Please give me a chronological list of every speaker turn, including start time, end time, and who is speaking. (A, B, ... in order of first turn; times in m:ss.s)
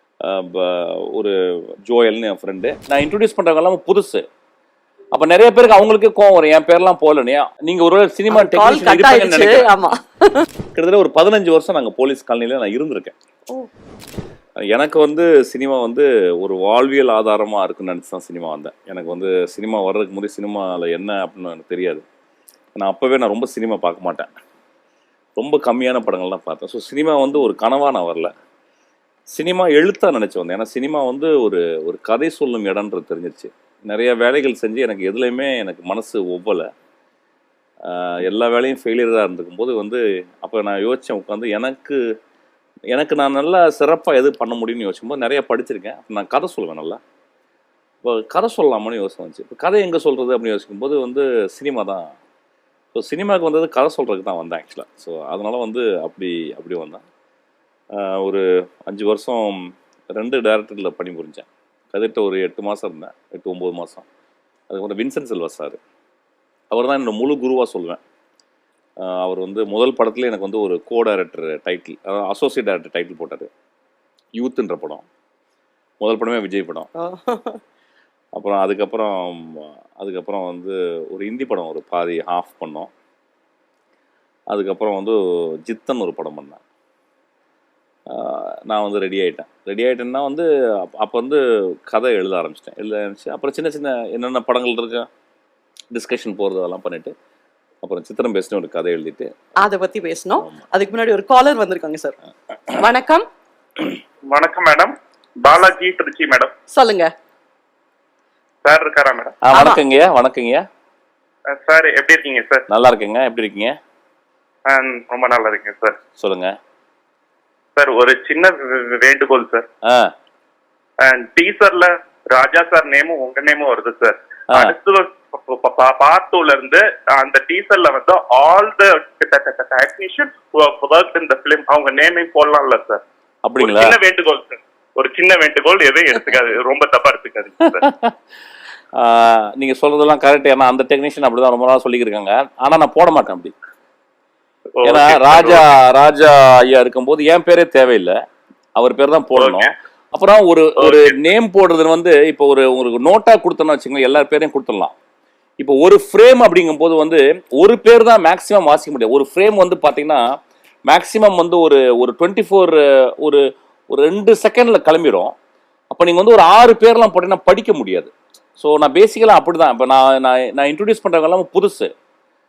0:00.2-0:04.2 A
0:05.1-0:09.7 A
0:08.4-0:10.1 B
0:08.7-0:09.0 C
0:09.6-0:09.9 C
0:10.7-0:13.1 A
0:14.7-0:22.0 A
0:22.8-0:24.3 A
0:25.4-0:28.3 A
0:29.3-0:36.7 A
0:37.8-0:42.0 A
0:42.9-0:47.0 A
0:48.0-0:52.2 A
0:53.0-0:57.0 A
0:57.9-1:04.1 A
1:04.7-1:05.8 A
1:06.7-1:08.0 A
1:09.0-1:13.5 A
1:14.4-1:15.0 A
1:16.0-1:16.9 A
1:17.0-1:17.6 C
1:18.4-1:22.9 A
1:24.5-1:26.6 A
1:28.1-1:35.1 A
1:35.9-1:37.1 A
1:37.8-1:39.3 A
1:39.7-1:42.1 C
1:40.4-1:40.6 A
1:42.8-1:43.2 B
1:44.3-1:46.9 B
1:46.8-1:47.1 C
1:48.6-1:49.8 B
1:49.4-1:50.6 A
1:51.5-1:52.7 B
1:52.7-1:53.8 A
1:54.7-1:56.0 B
1:56.2-1:56.6 A
1:57.8-1:59.6 B
1:59.8-2:00.1 A
2:01.0-2:13.0 B
2:04.5-2:04.8 A
2:13.4-2:14.0 A
2:13.6-2:17.9 B
2:17.7-2:18.1 A
2:19.0-2:23.6 A
2:24.8-2:25.7 B
2:24.8-2:28.2 A
2:28.8-2:35.0 A
2:29.4-2:29.7 B
2:30.8-2:31.2 B
2:35.6-2:40.2 A
2:40.9-2:45.3 A
2:45.9-2:51.9 A